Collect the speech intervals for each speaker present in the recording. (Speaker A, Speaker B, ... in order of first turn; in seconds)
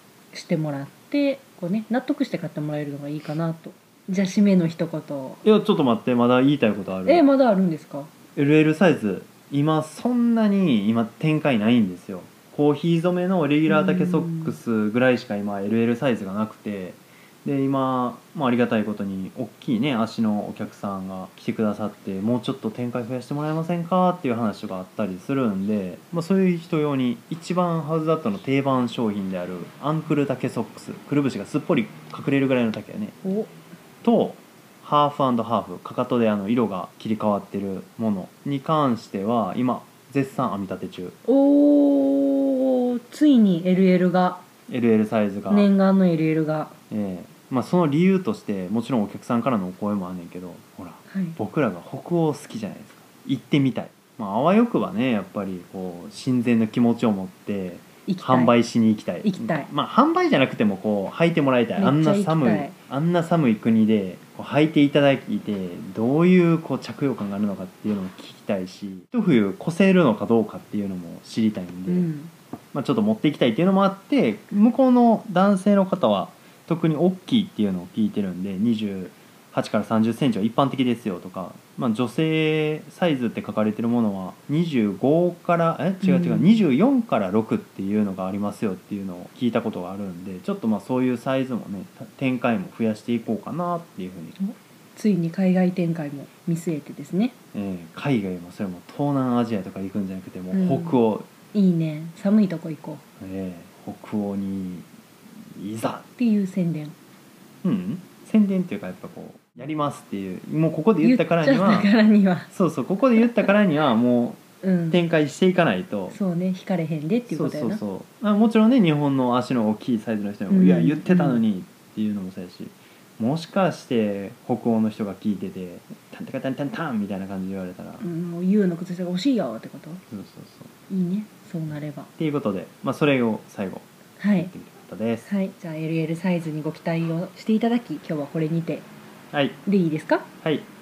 Speaker A: 0.3-5.4, 7.0-8.1, 13.7-14.6, 33.2-33.5, 41.2-44.4, 45.5-46.7, 51.1-51.4, 58.0-58.5, 59.2-59.7, 61.8-62.8, 71.9-72.3, 86.0-86.6, 94.4-97.3, 100.5-101.0, 101.5-103.0, 106.2-107.0, 111.0-112.5, 114.6-115.0, 116.1-117.8, 120.5-121.4, 128.0-130.0, 130.9-132.1, 134.2-134.5, 135.3-138.9, 139.7-140.3
Speaker B: 5.4-7.2, 8.3-33.1, 34.0-41.1, 44.7-45.7, 46.9-72.1, 72.7-94.3, 97.5-101.3, 103.2-104.9, 105.5-106.0, 107.6-111.9, 112.5-116.2, 117.3-128.1, 130.1-130.7, 132.2-135.3, 139.3-139.6, 140.4-140.7